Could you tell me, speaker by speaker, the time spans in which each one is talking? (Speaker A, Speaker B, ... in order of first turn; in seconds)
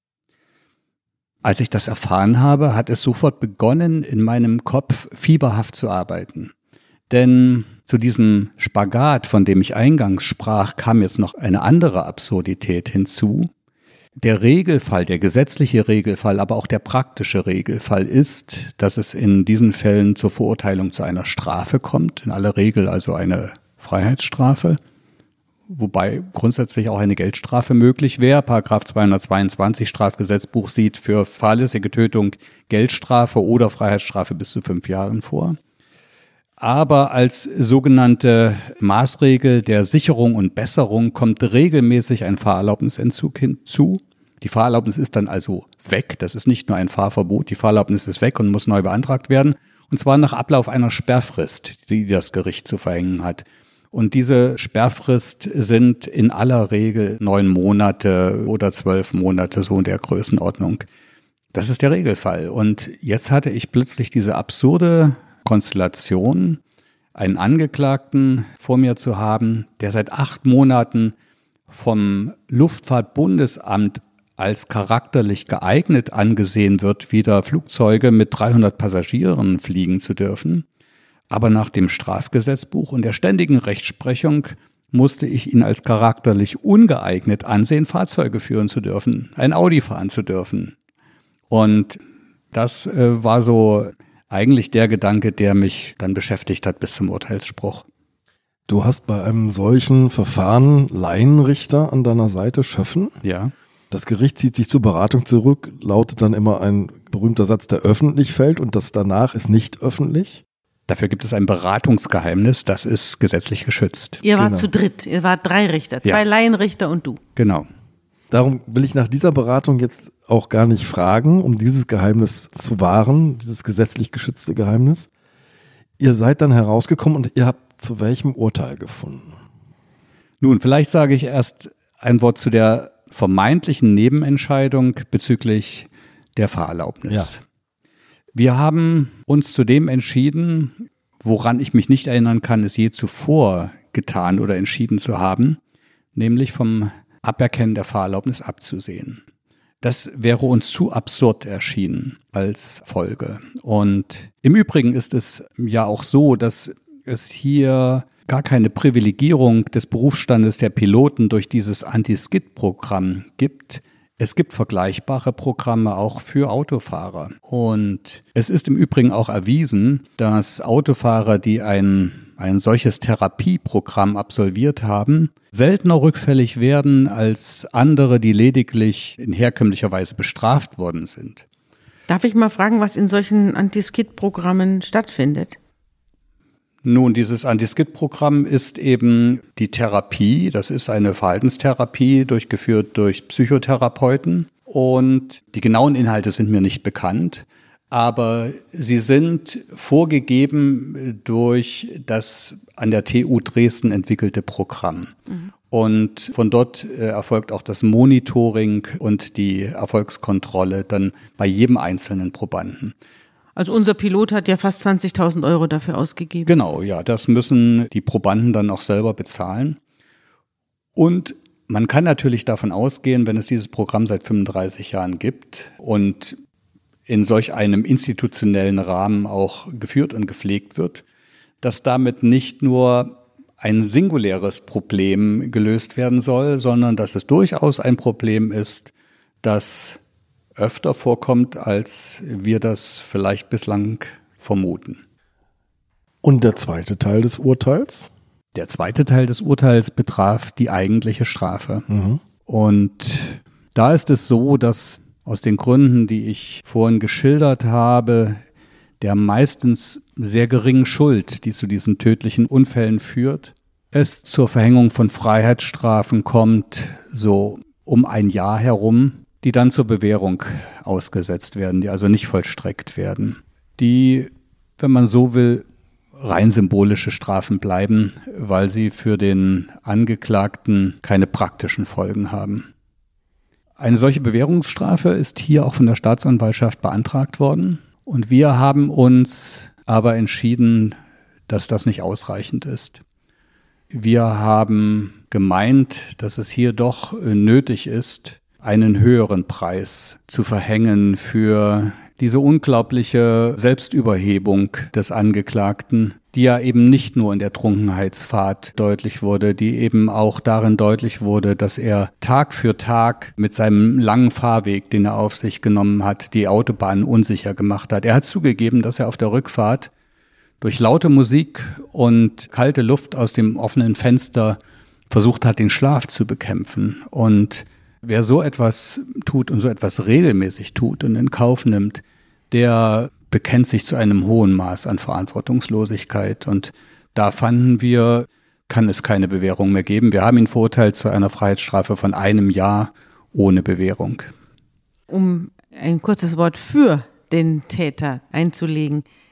Speaker A: 1.4-6.5, 7.1-13.5, 14.2-24.8, 25.7-35.6, 36.6-60.8, 61.5-66.6, 67.1-71.1, 71.7-80.6, 81.3-90.7, 91.5-92.0, 92.5-97.8, 103.2-103.5, 110.9-114.2, 117.3-117.7, 130.4-137.4, 138.3-145.6, 146.1-149.2, 149.8-181.4, 186.8-205.1, 205.7-212.9, 216.5-219.8, 220.9-226.4, 227.1-231.0, 231.6-238.9, 239.4-240.0, 240.6-245.0, 248.5-251.8, 252.4-258.4, 259.0-275.6, 276.2-282.7, 283.8-290.9, 291.5-293.0, 293.9-319.9, 320.6-324.6, 325.1-344.3
Speaker B: 98.7-103.1, 103.9-110.4, 114.3-114.7, 118.3-125.1, 126.0-129.3, 246.2-248.1, 251.9-252.2
Speaker C: 114.2-117.2, 182.1-185.6, 213.6-216.5, 345.1-349.1